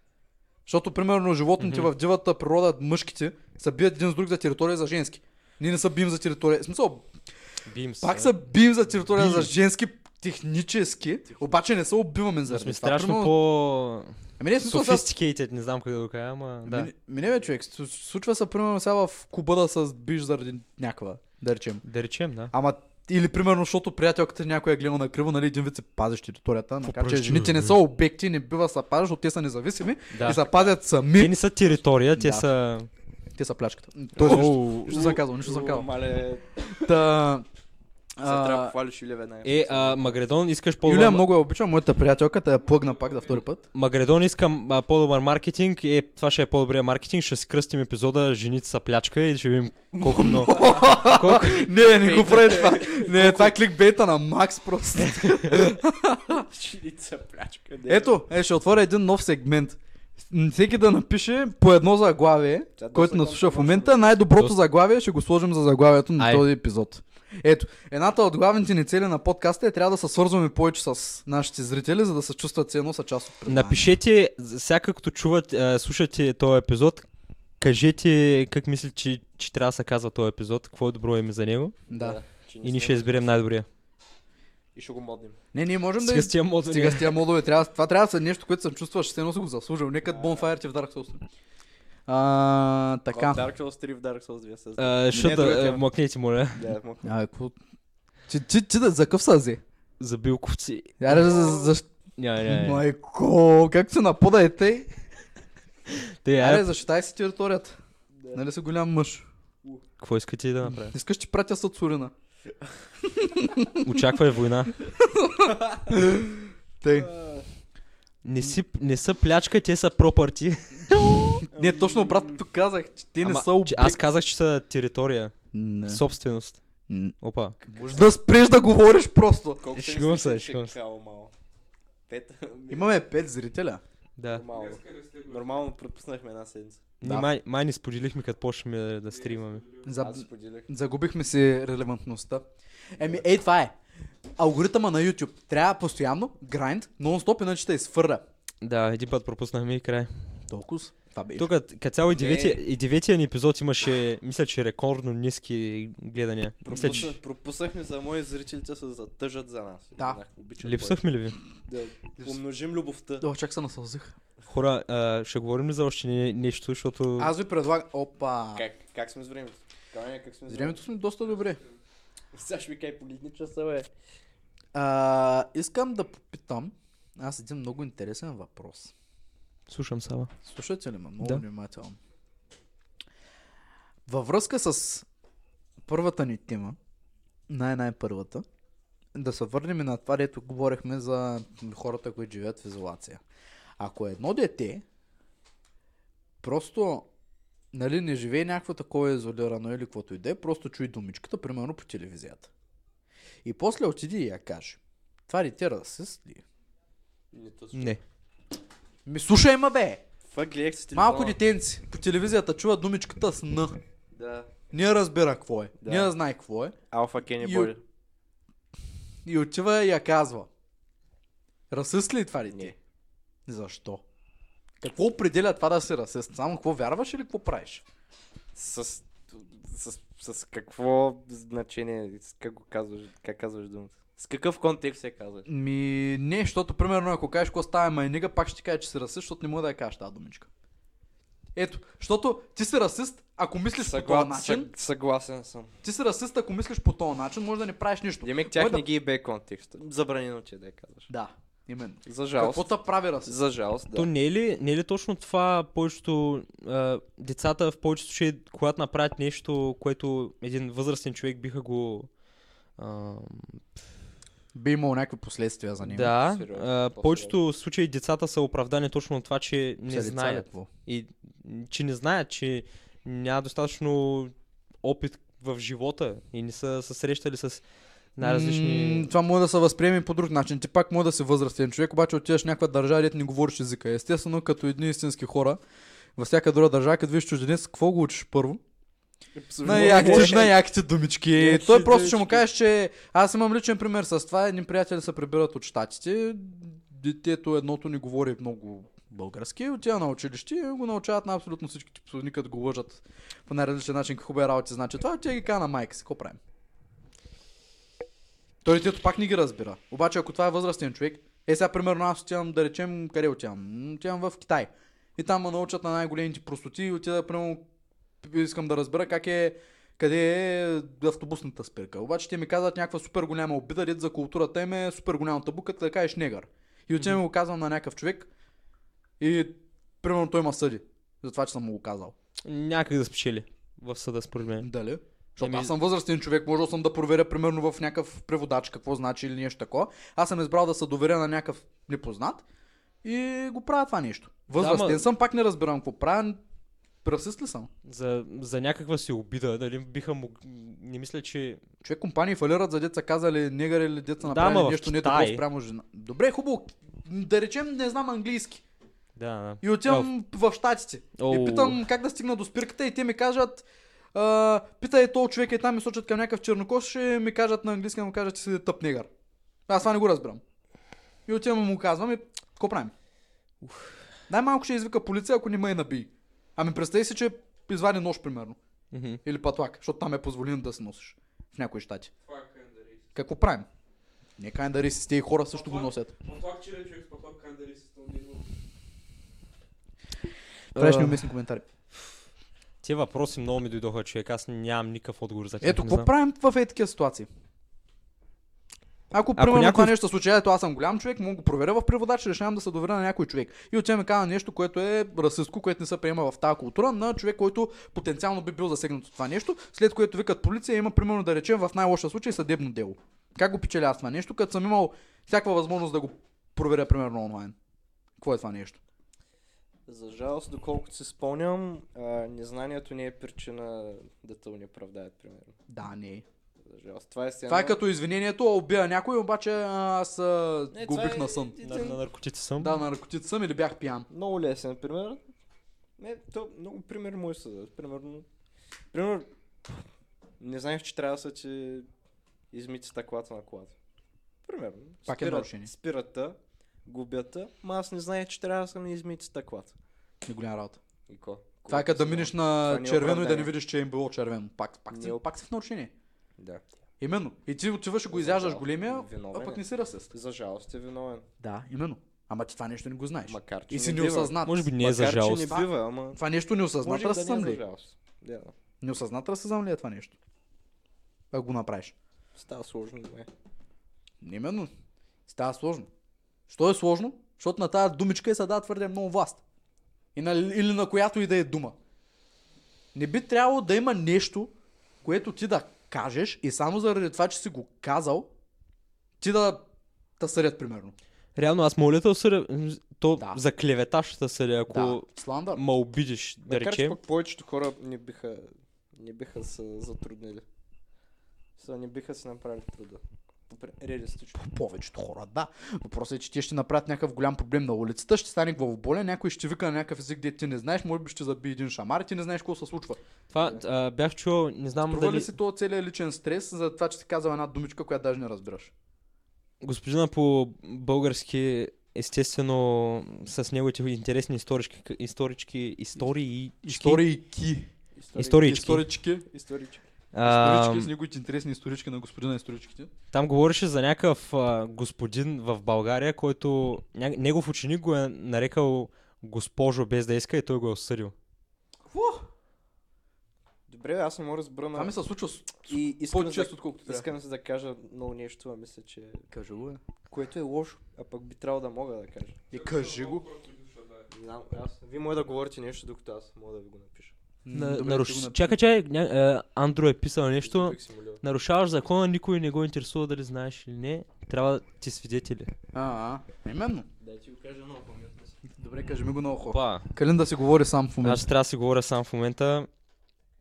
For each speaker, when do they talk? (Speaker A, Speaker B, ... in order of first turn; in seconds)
Speaker A: 0.7-7.0, 8.0-13.3, 14.4-15.1, 16.6-21.8, 22.5-31.5, 32.1-32.5, 33.3-35.9, 36.8-37.5, 38.2-38.7, 40.8-43.6, 50.0-56.4, 57.9-59.8, 60.3-74.0, 81.9-82.2, 85.5-91.2, 92.1-93.5, 95.1-95.8, 97.0-97.5, 98.3-99.6, 101.0-101.9, 102.4-104.9, 106.4-107.8, 108.3-109.3, 110.6-112.1, 113.1-114.0, 115.0-117.1, 121.1-124.0, 125.5-126.0, 126.9-129.6, 132.7-133.8, 137.0-137.3, 139.8-142.4, 142.9-143.7, 144.4-148.2, 150.5-151.5, 156.7-157.1, 163.2-164.1, 167.2-168.6, 170.5-171.6, 174.7-178.9, 180.4-182.0, 184.1-185.1, 185.9-186.8, 187.5-188.4, 189.1-193.2, 193.8-194.8, 196.4-197.1, 197.7-202.5, 203.4-206.4, 209.1-210.0, 210.9-213.8, 214.7-216.8, 217.4-217.7, 219.2-220.5, 221.7-222.7, 223.5-224.0, 224.8-227.8, 235.5-240.5, 241.6-244.7, 245.8-248.8, 251.1-253.3, 264.5-266.1, 269.9-270.7, 278.2-285.6, 286.1-288.6, 289.6-306.4, 308.6-317.6, 318.2-328.3, 329.2-332.1, 334.6-342.4, 343.0-346.4, 347.0-347.7, 351.8-358.6, 359.6-369.1, 369.7-370.4, 371.3-372.9, 374.3-378.6, 379.2-382.1, 383.1-383.7, 384.4-386.1, 390.7-391.6, 395.6-397.3, 399.1-417.5, 418.2-418.8, 425.7-426.2, 427.5-431.5, 432.6-434.1, 445.1-445.7, 450.2-450.8, 451.7-455.9, 457.0-460.1, 461.4-464.7, 465.5-467.6, 468.8-470.1, 471.3-471.9, 474.2-474.7, 475.3-475.9, 476.5-479.4, 480.1-481.8, 482.9-484.5, 485.0-488.3, 489.2-489.6, 490.2-490.9, 494.7-495.6, 504.4-513.0, 514.9-518.7, 526.6-527.7, 528.3-529.2, 530.2-532.9, 541.9-542.2, 544.7-547.1, 549.3-549.8, 552.5-553.2, 557.4-558.5, 565.7-566.9, 568.5-571.3
Speaker B: 1.6-1.9, 7.7-8.3, 9.1-9.5, 12.5-16.9, 21.8-22.5, 26.8-27.8, 30.1-30.4, 31.1-32.9, 34.2-35.1, 39.4-41.3, 43.7-51.7, 55.1-55.7, 66.2-66.5, 73.5-77.1, 77.6-81.8, 82.6-83.7, 86.0-87.2, 94.8-96.7, 100.0-101.4, 102.2-102.8, 105.9-106.7, 110.0-110.9, 113.8-114.7, 118.2-121.4, 123.2-126.6, 127.2-127.6, 129.8-130.7, 134.2-134.4, 137.0-139.6, 148.6-150.1, 151.3-157.1, 160.6-161.4, 164.5-167.3, 179.7-180.3, 207.7-208.0, 253.9-262.1, 262.8-263.6, 265.8-277.6, 278.1-279.1, 289.6-290.5, 291.5-291.9, 332.4-334.7, 335.4-335.7, 344.5-345.1, 347.8-351.6, 354.2-355.4, 359.1-360.1, 361.2-361.8, 373.6-374.0, 378.9-379.2, 390.7-391.3, 392.8-396.1, 399.4-399.9, 431.6-432.8, 464.4-465.6, 491.3-497.0, 513.3-515.3, 519.6-527.1, 528.1-528.9, 530.1-530.9, 533.1-541.1, 557.5-565.5, 569.5-569.9, 571.0-572.7
Speaker C: 34.2-36.8, 38.2-40.2, 50.4-53.5, 56.3-58.2, 62.8-64.2, 81.9-83.3, 84.7-85.4, 90.1-90.5, 93.1-95.8, 96.5-97.2, 101.2-101.7, 116.8-117.5, 121.5-122.4, 129.6-131.3, 132.1-132.9, 134.3-136.8, 140.0-140.7, 152.1-152.6, 156.7-161.1, 161.7-163.2, 168.5-170.8, 172.3-173.9, 207.3-208.0, 210.3-211.4, 214.1-214.5, 215.8-216.1, 216.9-217.8, 228.5-235.5, 243.8-245.7, 248.2-251.1, 252.1-254.1, 266.1-267.4, 289.3-290.5, 291.4-292.4, 419.9-425.6, 426.6-427.8, 430.7-432.0, 434.1-435.2, 436.0-438.2, 438.9-439.3, 440.4-441.9, 442.5-443.7, 444.4-449.7, 451.1-453.5, 454.9-455.2, 458.1-461.2, 463.3-466.2, 466.8-468.5, 472.4-473.3, 496.5-500.4, 501.6-504.4, 513.4-513.6, 528.0-528.5, 529.2-529.8, 543.7-544.9, 545.7-549.2, 550.1-552.4, 554.1-557.1, 560.4-561.2, 567.0-568.4
Speaker D: 134.5-135.7, 139.1-139.9, 171.3-171.8, 382.2-383.1, 385.5-388.5, 552.5-554.1